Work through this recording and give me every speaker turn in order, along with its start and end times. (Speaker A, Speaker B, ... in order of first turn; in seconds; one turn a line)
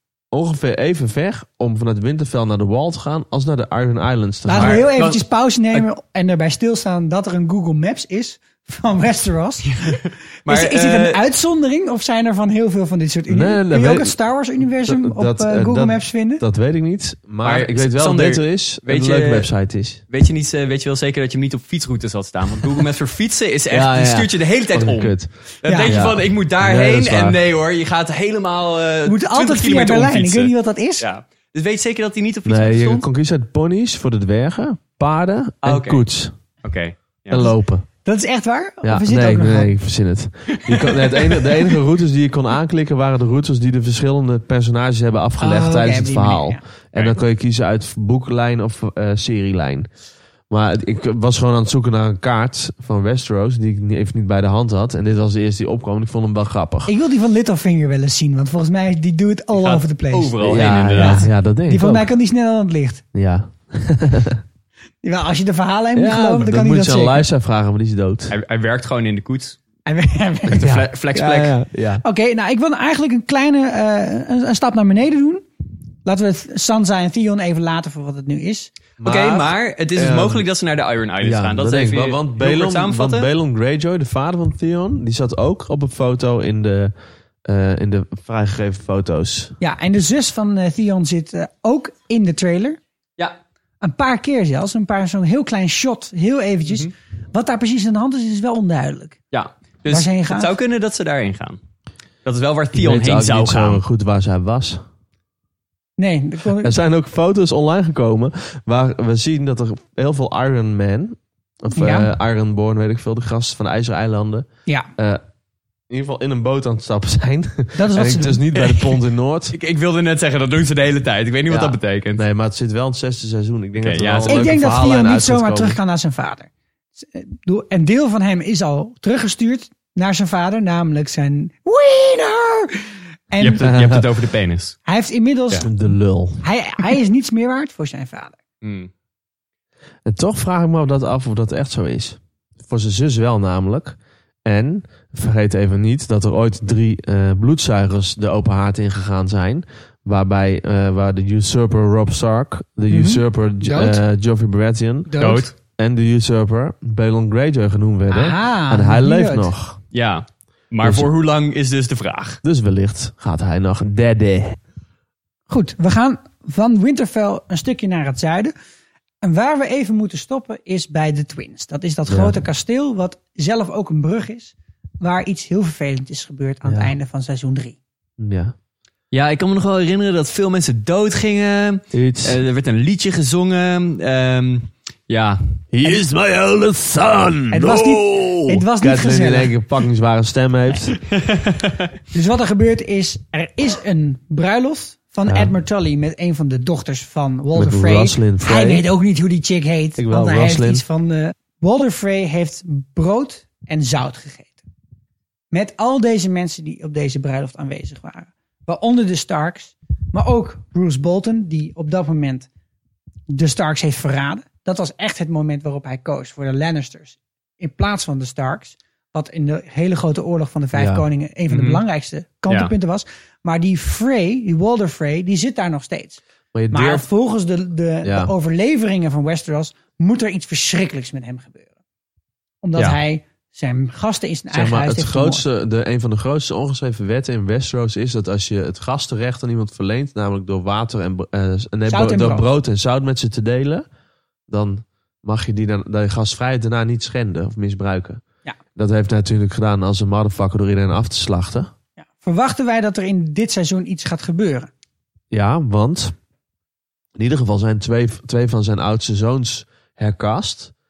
Speaker A: 0.3-4.8
Speaker B: 4.4-9.9
Speaker C: 4.5-5.2
Speaker C: 9.6-11.2
Speaker B: 10.5-16.4
Speaker A: 13.3-14.1
Speaker A: 14.8-20.0
Speaker C: 17.4-19.5
Speaker C: 20.1-33.0
Speaker A: 23.7-25.3
Speaker B: 25.7-25.9
Speaker A: 25.9-27.4
Speaker B: 29.1-31.1
Speaker A: 32.5-36.3
Speaker C: 35.6-36.0
Speaker C: 36.6-37.5
Speaker A: 37.3-37.9
Speaker B: 38.0-39.7
Speaker A: 38.8-49.9
Speaker C: 40.5-41.8
Speaker B: 45.4-46.6
Speaker A: 50.5-56.9
Speaker B: 56.9-63.0
Speaker C: 59.5-61.3
Speaker A: 60.4-62.1
Speaker A: 63.1-64.4
Speaker B: 65.0-67.2
Speaker A: 65.9-68.3
Speaker C: 68.3-69.6
Speaker B: 69.8-70.7
Speaker C: 70.5-71.6
Speaker A: 70.6-72.0
Speaker B: 72.0-75.4
Speaker B: 76.0-78.7
Speaker A: 79.0-80.4
Speaker C: 79.0-83.3
Speaker A: 81.2-86.9
Speaker A: 87.5-89.5
Speaker B: 89.6-92.8
Speaker B: 93.8-99.2
Speaker C: 99.3-101.6
Speaker B: 99.9-100.5
Speaker C: 102.2-103.8
Speaker A: 102.7-104.8
Speaker B: 106.0-106.7
Speaker A: 106.6-115.2
Speaker B: 111.7-112.1
Speaker A: 115.9-119.5
Speaker B: 117.8-118.4
Speaker C: 118.7-118.9
Speaker C: 119.5-122.2
Speaker A: 121.5-125.8
Speaker C: 123.8-124.5
Speaker B: 124.3-133.7
Speaker C: 133.4-134.8
Speaker A: 133.6-134.1
Speaker B: 134.8-135.7
Speaker A: 135.6-136.4
Speaker B: 136.4-138.4
Speaker C: 138.6-138.9
Speaker A: 140.0-159.8
Speaker B: 152.9-154.0
Speaker B: 155.1-155.5
Speaker C: 155.2-155.5
Speaker B: 158.1-159.5
Speaker C: 159.9-162.4
Speaker A: 160.8-161.1
Speaker A: 162.4-164.6
Speaker B: 165.5-168.5
Speaker B: 169.2-177.8
Speaker A: 172.1-172.3
Speaker A: 176.6-176.9
Speaker A: 178.2-178.5
Speaker C: 179.1-185.6
Speaker A: 181.9-182.4
Speaker A: 185.7-191.0
Speaker B: 187.5-189.5
Speaker C: 191.1-191.9
Speaker B: 192.1-204.6
Speaker A: 195.2-195.5
Speaker A: 197.5-198.8
Speaker A: 200.0-200.8
Speaker B: 205.5-212.5
Speaker B: 213.3-231.7
Speaker A: 220.7-221.0
Speaker C: 221.5-221.8
Speaker A: 226.5-227.1
Speaker A: 228.0-228.3
Speaker B: 232.6-235.5
Speaker A: 234.5-243.8
Speaker B: 241.9-242.4
Speaker A: 244.5-248.2
Speaker A: 248.8-251.7
Speaker B: 252.0-254.7
Speaker A: 255.3-256.1
Speaker A: 257.1-260.7